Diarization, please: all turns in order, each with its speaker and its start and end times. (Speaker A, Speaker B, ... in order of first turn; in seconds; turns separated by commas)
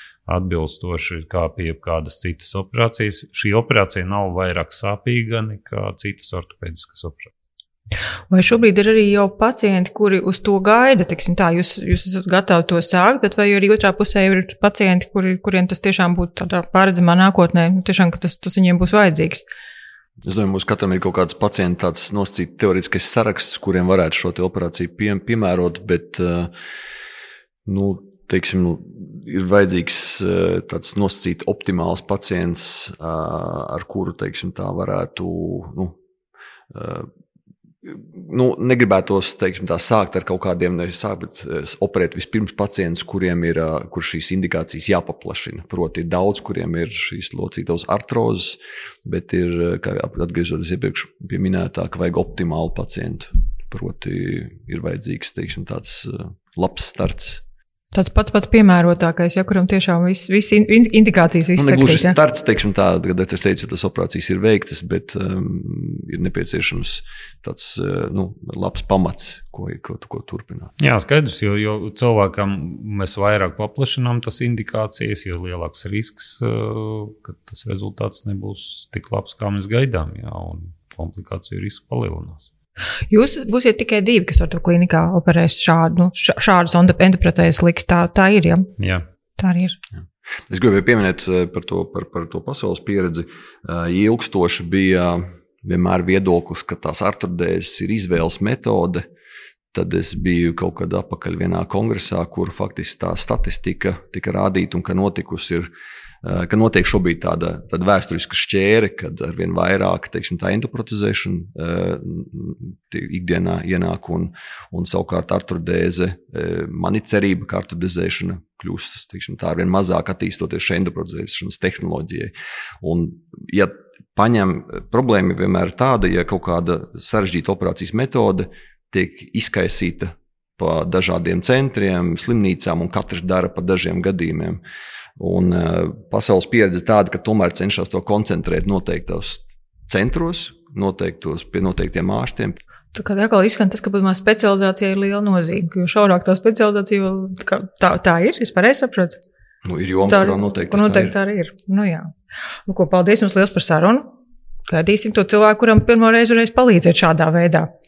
Speaker A: 0.3-7.3, Speaker B: 8.3-19.4, Speaker C: 20.3-26.5, Speaker C: 27.7-36.0, Speaker C: 36.7-37.1, Speaker C: 37.8-57.4, Speaker B: 57.9-62.2, Speaker C: 61.6-70.7, Speaker A: 70.8-82.5, Speaker B: 83.1-88.7, Speaker A: 88.8-89.0, Speaker B: 89.4-89.8, Speaker C: 90.5-99.0, Speaker C: 99.7-105.7, Speaker C: 106.2-134.6, Speaker C: 135.2-142.6, Speaker B: 142.9-149.2, Speaker C: 149.6-151.1, Speaker B: 150.1-152.1, Speaker B: 152.7-154.1, Speaker B: 154.7-157.7